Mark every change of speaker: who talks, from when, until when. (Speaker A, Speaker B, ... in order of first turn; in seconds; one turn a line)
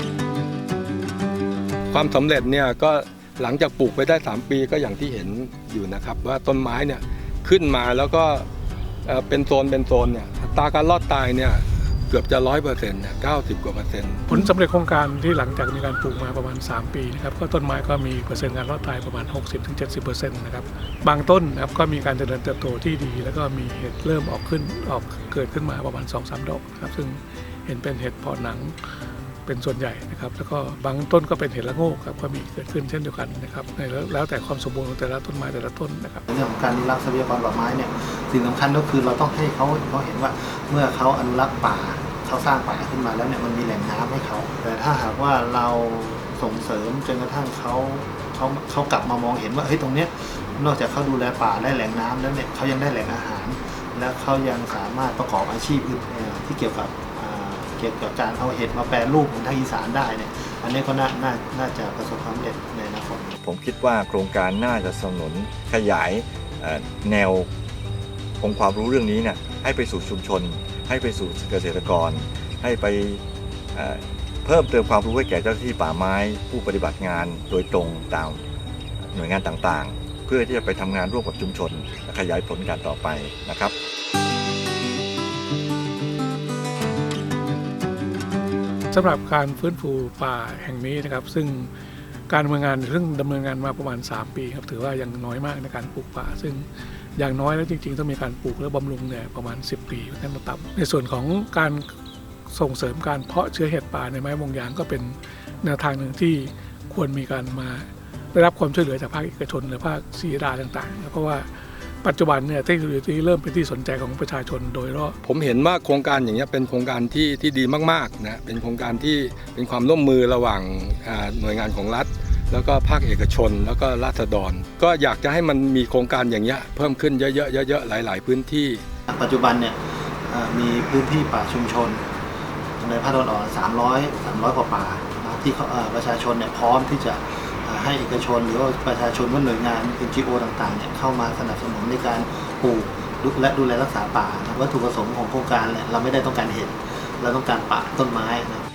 Speaker A: 1.9-8.5
Speaker A: 9.1-14.3
Speaker B: 14.3-28.8
Speaker B: 29.5-36.3
Speaker C: 36.3-63.3
Speaker D: 63.4-67.5
Speaker D: 68.4-73.2
Speaker D: 73.7-78.4
Speaker D: 79.0-83.7
Speaker B: 88.9-91.7
Speaker B: 92.3-96.7
Speaker B: 97.2-101.9
Speaker B: 102.5-111.5
Speaker B: 112.0-115.2
Speaker A: 115.2-128.8
Speaker C: 129.1-132.0
Speaker C: 132.8-148.7